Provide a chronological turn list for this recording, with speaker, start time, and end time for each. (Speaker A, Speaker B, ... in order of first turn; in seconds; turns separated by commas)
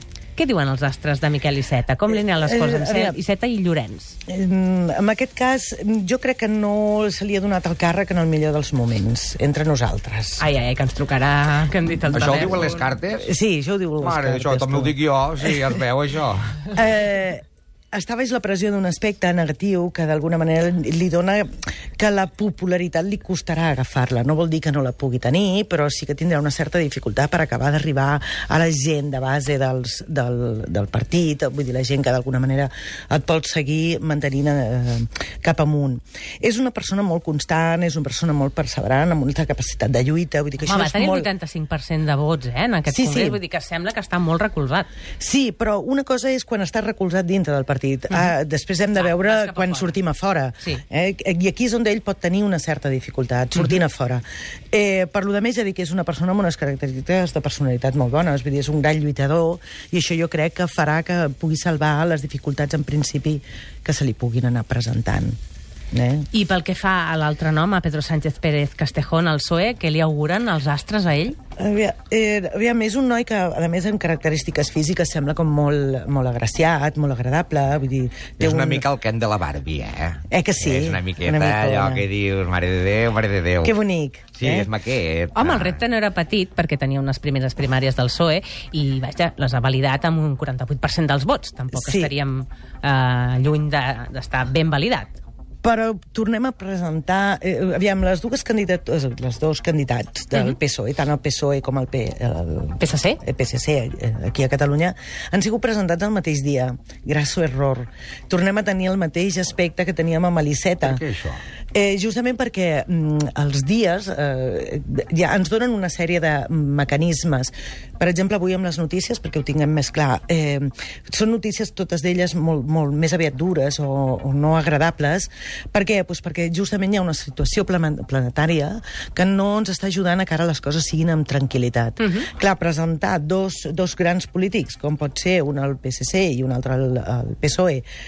Speaker A: 0.4-4.2, Speaker B: 2.1-3.2, Speaker B: 4.3-10.4, Speaker A: 10.4-12.8, Speaker C: 12.1-13.3, Speaker B: 13.2-15.7, Speaker C: 14.0-16.7, Speaker B: 16.7-41.3, Speaker A: 40.6-44.9, Speaker B: 42.9-43.4, Speaker B: 45.2-65.4, Speaker A: 49.0-50.0, Speaker B: 65.9-66.3, Speaker A: 66.3-71.4, Speaker B: 71.6-78.9, Speaker C: 78.4-83.8, Speaker B: 80.3-82.0, Speaker B: 83.6-84.7, Speaker C: 84.4-85.8, Speaker A: 85.3-95.1, Speaker B: 91.7-92.1, Speaker B: 95.6-111.0, Speaker A: 102.8-103.2, Speaker C: 110.8-111.4, Speaker B: 111.7-137.8, Speaker A: 132.0-132.3